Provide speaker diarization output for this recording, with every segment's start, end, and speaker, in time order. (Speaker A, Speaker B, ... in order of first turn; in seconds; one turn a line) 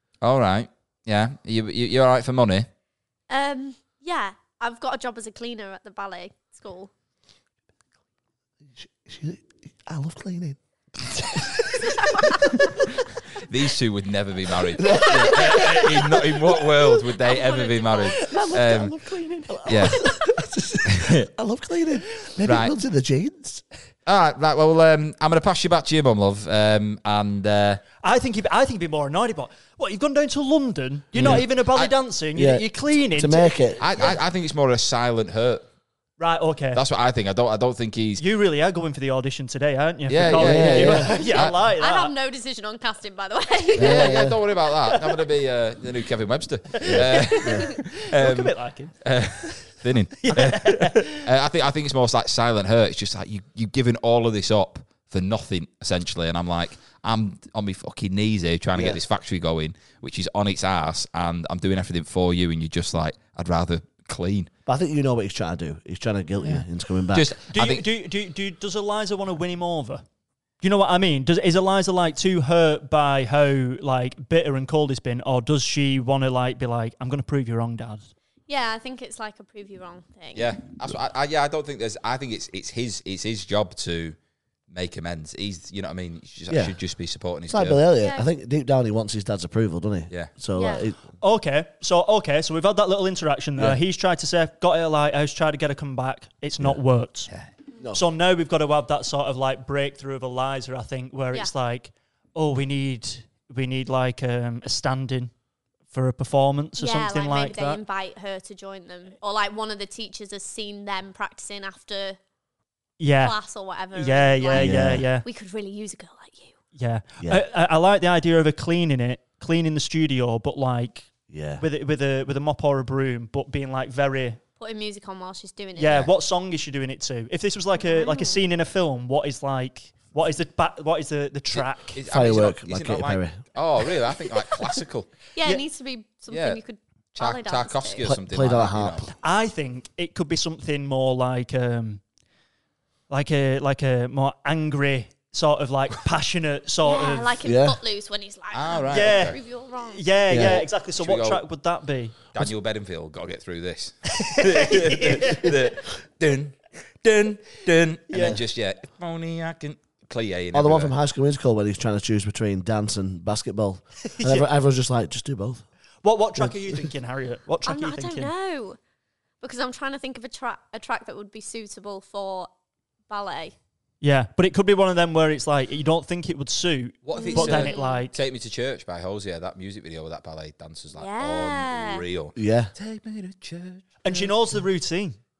Speaker A: 0.2-2.7
Speaker B: 3.3-6.9
Speaker C: 8.7-12.5
Speaker A: 13.3-18.9
Speaker C: 14.8-16.1
Speaker B: 17.2-18.2
Speaker C: 18.2-23.6
Speaker D: 19.1-19.9
Speaker A: 19.6-20.0
Speaker A: 20.9-21.3
Speaker A: 22.4-22.7
Speaker A: 24.1-27.8
Speaker D: 28.0-34.1
Speaker A: 31.1-31.9
Speaker C: 31.2-31.5
Speaker C: 32.3-33.8
Speaker A: 33.8-35.7
Speaker D: 36.2-36.8
Speaker A: 36.7-38.2
Speaker D: 38.2-42.1
Speaker A: 40.1-41.5
Speaker C: 40.3-41.2
Speaker B: 41.3-44.1
Speaker C: 43.8-44.4
Speaker A: 43.8-64.5
Speaker D: 44.9-45.1
Speaker D: 46.7-49.6
Speaker C: 46.8-47.7
Speaker D: 50.2-51.3
Speaker C: 58.7-59.0
Speaker C: 64.7-67.3
Speaker A: 66.4-67.8
Speaker D: 67.5-70.0
Speaker D: 70.6-78.1
Speaker B: 78.5-80.5
Speaker A: 80.3-84.2
Speaker A: 84.7-87.8
Speaker C: 86.5-86.8
Speaker C: 87.5-91.0
Speaker B: 88.0-88.3
Speaker B: 90.5-90.9
Speaker D: 91.2-97.3
Speaker C: 97.8-98.0
Speaker D: 97.9-105.3
Speaker D: 105.9-107.8
Speaker B: 106.8-112.2
Speaker D: 113.0-113.4
Speaker B: 113.2-116.5
Speaker D: 113.9-115.2
Speaker C: 114.5-115.1
Speaker D: 116.7-124.4
Speaker C: 121.3-121.6
Speaker B: 124.6-126.1
Speaker D: 125.8-132.0
Speaker B: 127.8-128.4
Speaker A: 131.5-135.1
Speaker C: 132.0-133.4
Speaker B: 135.3-138.1
Speaker A: 136.3-136.6
Speaker A: 137.2-139.1
Speaker C: 138.0-139.1
Speaker D: 139.2-142.0
Speaker D: 143.1-147.4
Speaker B: 146.8-150.0
Speaker C: 147.4-147.8
Speaker A: 148.5-149.4
Speaker D: 148.9-152.2
Speaker C: 150.3-150.6
Speaker A: 150.3-151.4
Speaker A: 152.3-160.9
Speaker D: 154.2-155.6
Speaker D: 158.1-158.4
Speaker C: 160.5-165.6
Speaker D: 164.1-164.5
Speaker D: 166.0-168.3
Speaker C: 166.4-166.9
Speaker B: 167.6-168.8
Speaker B: 169.4-172.5
Speaker B: 173.1-173.5
Speaker D: 174.0-178.2
Speaker A: 177.0-184.3
Speaker B: 177.1-178.0
Speaker B: 180.9-182.0
Speaker C: 182.3-182.7
Speaker D: 184.0-185.2